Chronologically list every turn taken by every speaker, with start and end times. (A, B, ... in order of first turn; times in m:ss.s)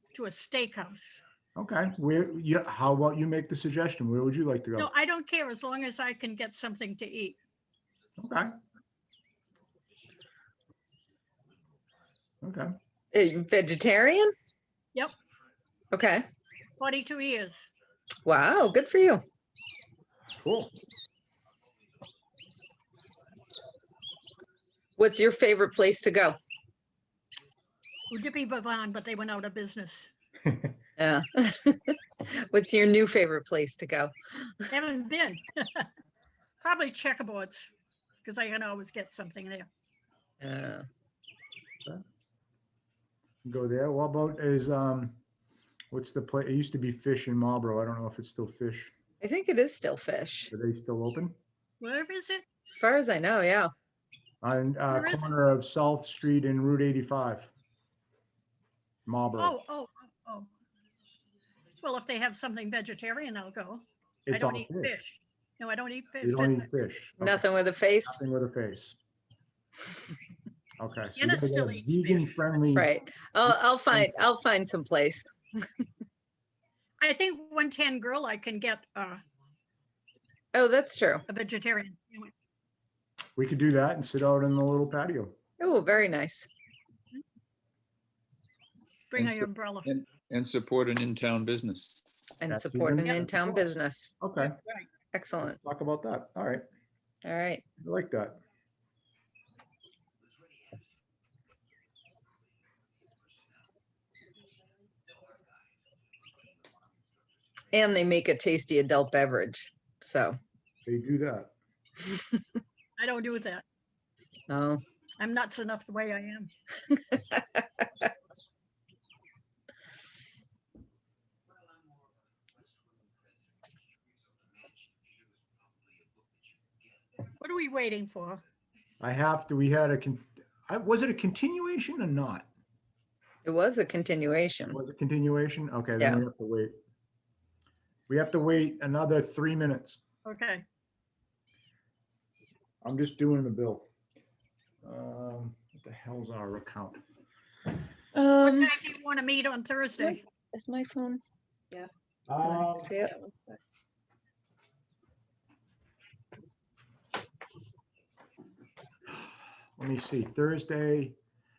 0:00.1-0:01.2 A
0:01.6-0:04.9 B
0:04.8-0:07.4 A
0:08.2-0:08.5 B
0:12.4-0:12.8 B
0:13.1-0:14.3 C
0:15.9-0:16.2 C
0:16.8-0:17.7 A
0:18.2-0:19.2 C
0:20.4-0:20.7 B
0:25.0-0:26.4 C
0:28.1-0:30.1 A
0:31.0-0:34.7 C
0:34.7-0:35.9 A
0:36.6-0:37.7 A
0:38.2-0:39.7 A
0:40.4-0:40.8 C
0:43.4-0:45.2 B
0:45.9-0:48.9 B
0:49.2-0:50.5 C
0:50.5-0:51.4 B
0:51.8-0:52.4 A
0:52.7-0:53.7 C
0:54.4-0:57.5 B
0:54.9-0:55.3 A
0:59.1-0:59.6 B
0:59.4-1:00.5 A
1:01.8-1:06.7 A
1:04.3-1:05.0 B
1:06.2-1:07.4 B
1:07.2-1:08.2 C
1:08.1-1:09.0 B
1:10.8-1:12.9 B
1:11.2-1:12.6 A
1:12.7-1:15.6 C
1:13.5-1:14.1 B
1:17.0-1:19.2 A
1:20.5-1:21.3 C
1:21.3-1:22.3 A
1:23.4-1:25.4 B
1:25.6-1:26.5 C
1:29.1-1:29.9 A
1:29.9-1:32.0 D
1:32.4-1:34.1 C
1:32.5-1:33.5 B
1:34.2-1:34.6 B
1:35.1-1:35.6 C
1:35.6-1:36.6 B
1:37.2-1:37.6 C
1:37.8-1:38.4 B
1:47.7-1:50.4 C
1:50.9-1:51.5 B
1:53.0-1:53.6 A
1:54.5-1:54.8 C
1:55.2-1:56.5 A
1:57.1-1:57.4 C
2:07.4-2:08.4 A
2:09.0-2:12.5 B
2:13.4-2:14.8 C
2:14.7-2:16.8 B
2:16.0-2:16.2 C
2:18.1-2:20.0 B
2:20.2-2:20.6 A
2:22.8-2:23.8 B
2:24.8-2:27.0 B
2:28.1-2:28.7 C
2:28.4-2:30.2 A
2:30.0-2:31.2 C
2:32.3-2:33.0 B
2:32.4-2:33.6 C
2:39.8-2:41.2 B